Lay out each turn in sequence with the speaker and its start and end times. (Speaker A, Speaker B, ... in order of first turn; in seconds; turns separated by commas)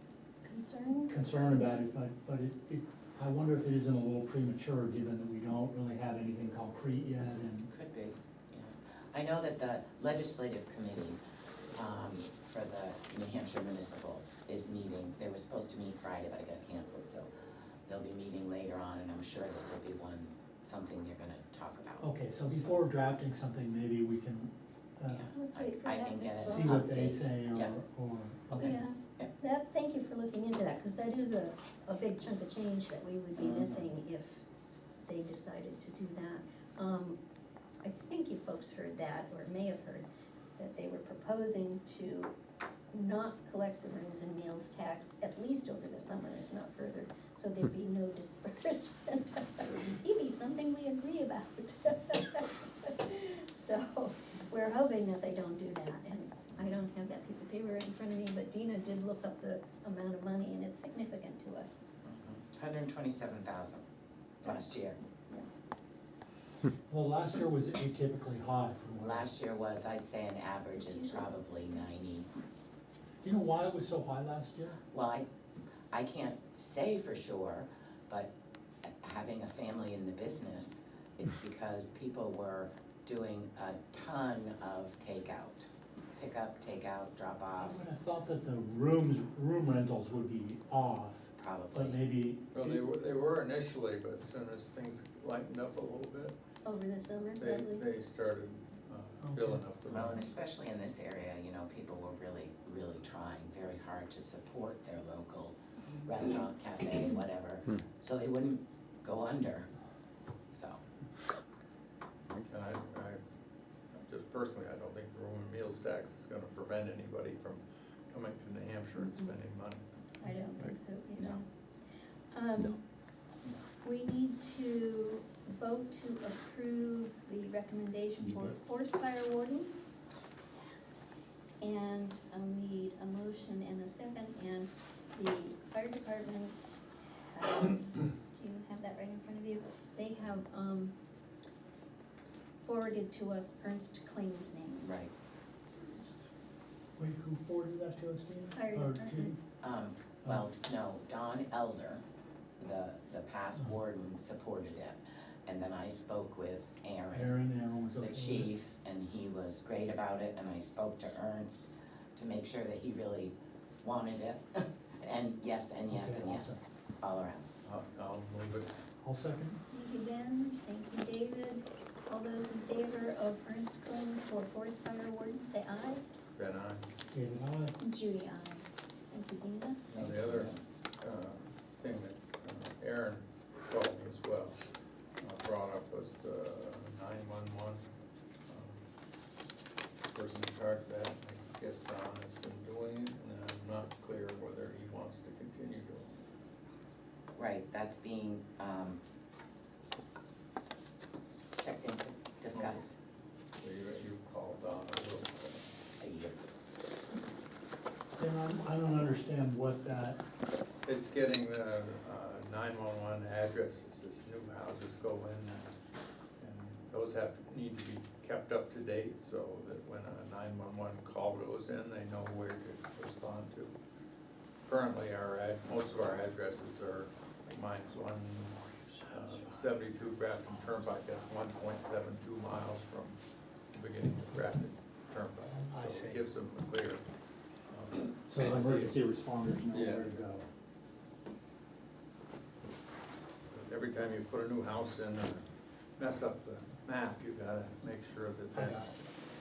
Speaker A: 0.4-1.2, Speaker B: 1.1-7.7, Speaker C: 7.7-11.2, Speaker C: 11.7-17.3, Speaker C: 17.9-22.9, Speaker B: 22.0-25.3, Speaker C: 25.1-27.7, Speaker A: 25.3-27.0, Speaker B: 26.4-28.8, Speaker C: 28.6-29.3, Speaker A: 28.6-34.4, Speaker C: 33.4-33.9, Speaker A: 35.0-37.2, Speaker A: 37.8-40.1, Speaker A: 40.6-42.3, Speaker A: 42.9-61.8, Speaker C: 62.0-63.8, Speaker C: 64.4-65.0, Speaker A: 64.5-64.8, Speaker B: 66.9-69.3, Speaker C: 69.0-72.3, Speaker A: 70.8-71.2, Speaker B: 73.2-74.8, Speaker C: 74.9-75.3, Speaker C: 75.9-78.3, Speaker C: 78.8-87.8, Speaker B: 87.5-92.8, Speaker C: 91.4-92.0, Speaker D: 92.5-96.3, Speaker A: 96.6-97.8, Speaker D: 97.3-100.3, Speaker B: 99.2-99.6, Speaker C: 99.9-109.7, Speaker C: 110.5-110.8, Speaker D: 112.4-113.2, Speaker D: 113.9-119.8, Speaker A: 119.0-119.3, Speaker A: 120.2-121.5, Speaker A: 122.3-122.8, Speaker A: 123.8-129.7, Speaker A: 131.6-140.9, Speaker A: 142.6-144.9, Speaker C: 144.8-145.1, Speaker B: 147.0-149.4, Speaker A: 148.5-149.3, Speaker C: 149.6-152.0, Speaker C: 152.6-157.3, Speaker B: 157.1-158.5, Speaker C: 158.0-167.4, Speaker B: 165.9-166.6, Speaker D: 167.6-168.7, Speaker B: 169.0-169.6, Speaker A: 169.7-176.0, Speaker D: 176.3-176.9, Speaker B: 177.1-177.8, Speaker A: 177.8-179.8, Speaker D: 179.9-184.6, Speaker C: 179.9-180.6, Speaker D: 185.2-187.8, Speaker D: 188.5-188.8, Speaker D: 190.1-196.2, Speaker C: 197.3-199.0, Speaker C: 201.5-202.9, Speaker D: 202.5-202.8, Speaker D: 203.6-205.7, Speaker C: 206.0-206.4, Speaker B: 208.2-210.2, Speaker D: 210.8-215.7, Speaker D: 216.4-223.7, Speaker D: 224.6-233.2, Speaker D: 233.7-237.0, Speaker B: 235.7-236.2, Speaker D: 237.7-239.0, Speaker B: 238.3-240.4, Speaker D: 239.7-240.1, Speaker D: 243.5-245.4, Speaker D: 246.0-249.0, Speaker B: 248.5-248.9